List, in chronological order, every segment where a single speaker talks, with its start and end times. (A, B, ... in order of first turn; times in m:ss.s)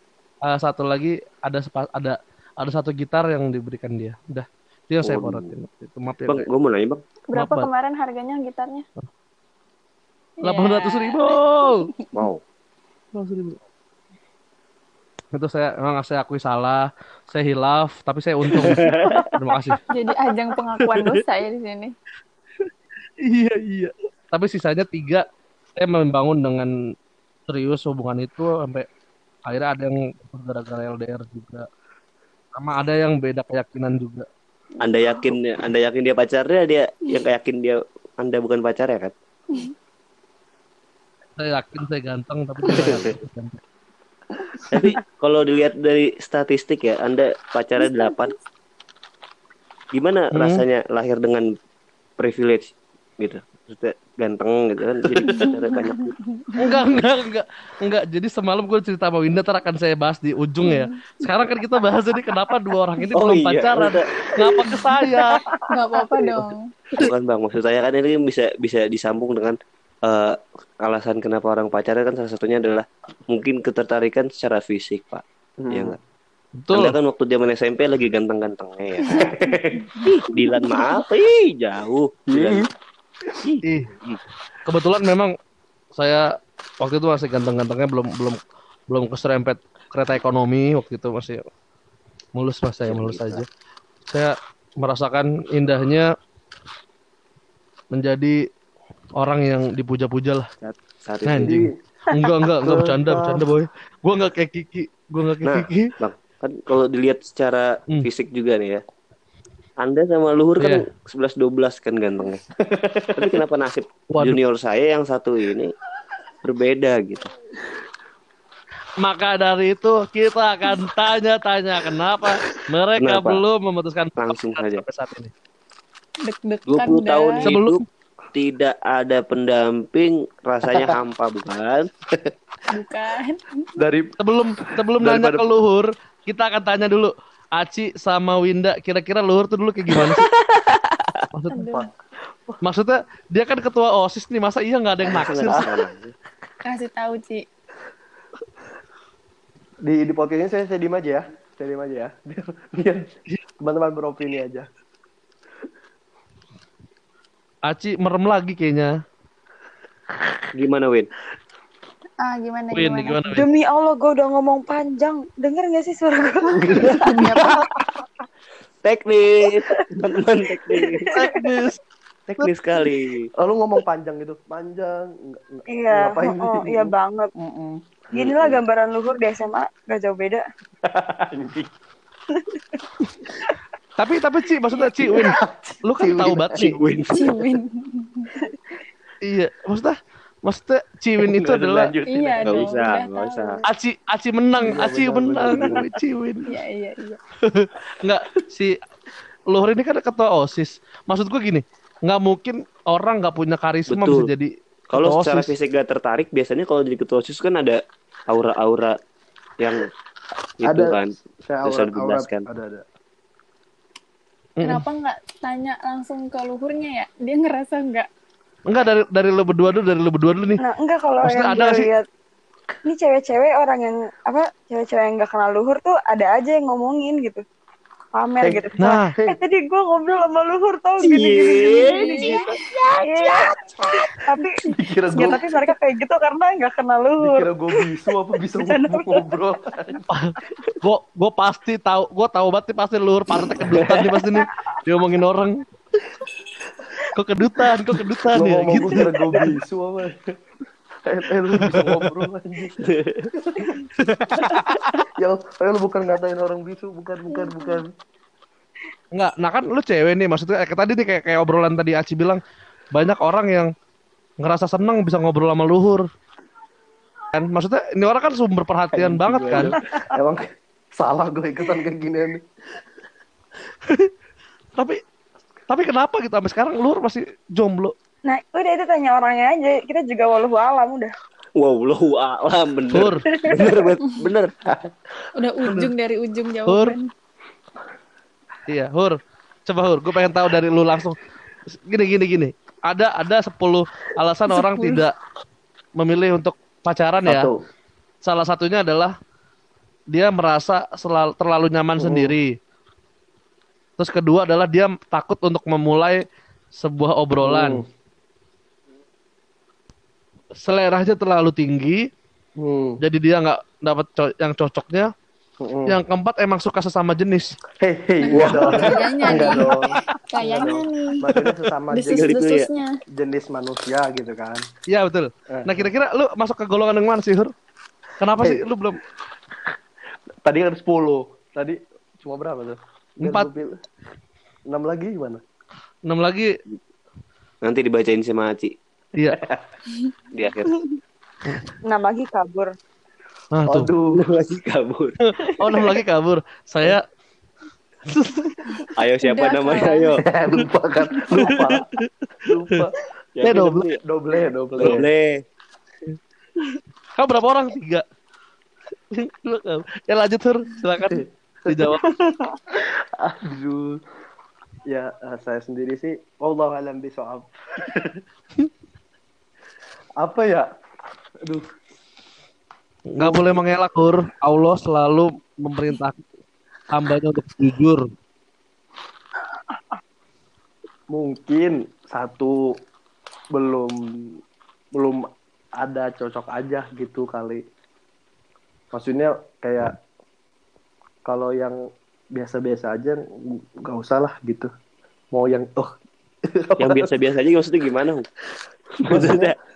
0:00.5-0:06.5 A
0:05.0-0:05.5 B
0:06.3-0:07.0 B
0:07.3-0:08.9 C
0:07.3-0:07.7 A
0:10.4-0:12.1 C
0:10.4-0:11.9 A
0:12.1-0:12.4 B
0:13.1-0:13.6 A
0:15.3-0:19.8 A
0:18.6-0:19.2 B
0:19.9-0:22.0 C
0:20.9-0:21.2 A
0:23.2-0:25.2 A
0:25.8-0:26.7 A
0:27.5-0:28.9 A
0:29.5-0:31.7 A
0:32.6-0:34.3 A
0:34.8-0:39.1 B
0:41.4-0:43.6 A
0:42.7-0:43.2 B
0:44.7-0:48.3 B
0:47.8-0:48.3 C
0:49.9-0:51.5 B
0:50.3-0:50.6 A
0:52.2-0:56.2 B
0:55.2-0:55.5 A
0:55.4-0:56.8 C
0:56.6-1:05.4 A
1:00.6-1:01.0 C
1:03.1-1:04.1 B
1:04.6-1:04.9 B
1:05.7-1:06.7 C
1:07.0-1:16.0 B
1:15.6-1:16.0 D
1:16.6-1:17.0 A
1:16.7-1:22.6 B
1:19.2-1:19.9 D
1:20.0-1:20.8 C
1:22.3-1:22.7 D
1:23.4-1:24.2 B
1:23.6-1:23.9 A
1:24.6-1:25.3 A
1:26.0-1:26.3 A
1:26.8-1:31.4 A
1:32.4-1:33.5 A
1:32.8-1:33.4 B
1:34.1-1:36.1 A
1:37.9-1:38.4 A
1:39.2-1:40.5 A
1:40.6-1:41.6 B
1:41.2-1:45.9 A
1:41.4-1:41.7 D
1:42.6-1:43.4 D
1:45.4-1:48.8 B
1:49.8-1:52.4 B
1:50.6-1:50.8 A
1:52.6-1:53.4 D
1:53.2-1:55.7 B
1:54.1-1:54.4 A
1:56.4-1:57.3 B
1:59.0-2:05.3 A
2:03.0-2:03.4 B
2:04.2-2:04.8 B
2:06.2-2:07.5 C
2:06.7-2:07.8 B
2:07.4-2:07.8 A
2:08.3-2:11.9 B
2:10.7-2:11.0 D
2:12.7-2:13.8 C
2:13.8-2:14.2 D
2:14.2-2:20.2 A
2:14.9-2:15.4 D
2:20.1-2:21.1 B
2:21.3-2:21.9 A
2:21.5-2:21.9 C
2:22.6-2:25.7 A
2:25.1-2:26.1 B
2:26.6-2:27.4 C
2:29.8-2:33.1 D
2:33.6-2:34.7 D
2:37.7-2:39.0 A
2:40.5-2:41.1 B
2:42.2-2:43.3 C
2:42.7-2:43.5 A
2:43.4-2:47.6 E
2:46.7-2:47.4 D
2:46.8-2:47.6 C
2:48.8-2:51.1 B
2:50.5-2:51.4 E
2:51.1-2:51.8 A
2:52.4-2:53.3 B
2:53.4-2:57.9 D
2:55.7-2:57.3 E
2:58.1-2:58.6 B
2:58.1-3:00.4 E
3:00.8-3:01.7 D
3:04.0-3:06.8 A
3:05.0-3:06.7 D
3:06.6-3:07.5 B
3:07.1-3:08.4 C
3:09.3-3:11.9 A
3:11.2-3:12.8 D
3:12.0-3:13.7 C
3:12.4-3:13.6 B
3:13.7-3:16.5 A
3:14.6-3:15.9 D
3:16.5-3:17.2 C
3:17.5-3:18.8 A
3:19.5-3:25.5 A
3:23.9-3:24.3 B
3:24.9-3:29.0 B
3:29.6-3:29.9 B
3:30.6-3:31.1 B
3:30.6-3:32.8 D
3:31.6-3:32.4 B
3:34.6-3:38.1 C
3:38.7-3:40.6 A
3:40.6-3:42.0 E
3:41.2-3:41.9 A
3:42.8-3:47.4 E
3:48.2-3:54.6 E
3:48.4-3:49.4 D
3:48.8-3:49.1 A
3:51.0-3:52.4 B
3:51.8-3:52.7 C
3:54.8-3:55.5 D
3:55.1-3:55.7 C
3:55.2-3:58.0 E
3:57.2-4:00.1 D
3:58.6-3:59.2 E
4:00.1-4:05.6 A
4:07.1-4:09.5 A
4:08.3-4:10.3 D
4:11.0-4:13.7 D
4:11.6-4:12.2 A
4:12.8-4:13.3 B
4:14.0-4:15.0 A
4:14.4-4:17.9 D
4:17.3-4:17.8 C
4:19.1-4:22.4 A
4:22.9-4:23.7 A
4:24.4-4:26.1 A
4:27.3-4:29.8 A
4:28.9-4:32.4 D
4:29.7-4:30.0 E
4:33.8-4:34.1 A
4:35.7-4:37.9 A
4:38.3-4:41.1 E
4:41.6-4:44.5 B
4:42.9-4:43.3 A
4:43.3-4:43.8 E
4:44.7-4:44.9 D
4:45.4-4:47.1 C
4:45.6-4:45.9 A
4:46.7-4:47.0 A
4:48.7-4:51.2 A
4:51.7-4:55.2 A
4:56.0-4:57.5 A
4:57.3-4:57.6 D
4:58.2-4:59.1 A
5:00.1-5:02.6 A
5:02.0-5:02.4 D
5:04.0-5:07.8 A
5:07.4-5:07.8 D
5:10.6-5:12.0 A
5:12.6-5:13.0 D
5:13.0-5:15.1 A
5:15.6-5:16.0 D
5:15.9-5:17.6 A
5:17.8-5:19.8 D
5:18.2-5:21.3 C
5:18.3-5:18.9 B
5:18.4-5:19.8 A
5:20.4-5:22.3 D
5:21.9-5:23.0 C
5:22.1-5:22.7 B
5:23.1-5:24.6 D
5:24.9-5:27.5 A
5:25.5-5:25.9 D
5:28.2-5:29.0 A
5:30.4-5:33.8 D
5:33.2-5:33.5 A
5:34.7-5:35.4 D
5:36.1-5:36.5 A
5:37.6-5:38.7 B
5:39.4-5:39.7 D
5:40.3-5:40.8 B
5:41.4-5:41.7 A
5:41.9-5:42.7 E
5:43.5-5:43.9 A
5:43.7-5:44.2 D
5:44.1-5:45.2 B
5:45.3-5:47.0 A
5:48.1-5:48.9 A
5:48.9-5:50.2 C
5:49.0-5:50.2 B
5:50.2-5:51.9 D
5:51.4-5:52.1 A
5:52.4-5:53.0 D
5:53.4-5:54.0 B
5:53.4-5:53.9 A
5:54.0-5:55.0 D
5:54.8-5:55.4 B
5:54.8-5:55.0 A
5:57.2-5:58.0 A
5:59.1-6:02.0 A
6:01.0-6:01.9 D
6:02.0-6:02.6 E
6:02.8-6:04.0 D
6:04.9-6:08.2 D
6:10.2-6:10.7 D
6:13.1-6:16.2 A
6:13.2-6:13.6 D
6:16.9-6:18.1 A
6:21.1-6:22.6 D
6:23.5-6:24.4 D
6:25.0-6:25.3 D
6:25.8-6:27.6 D
6:28.9-6:30.0 D
6:31.3-6:31.8 D
6:32.4-6:34.7 D
6:35.3-6:35.9 D
6:36.5-6:37.1 D
6:36.8-6:38.3 B
6:39.0-6:39.6 B
6:39.0-6:39.6 D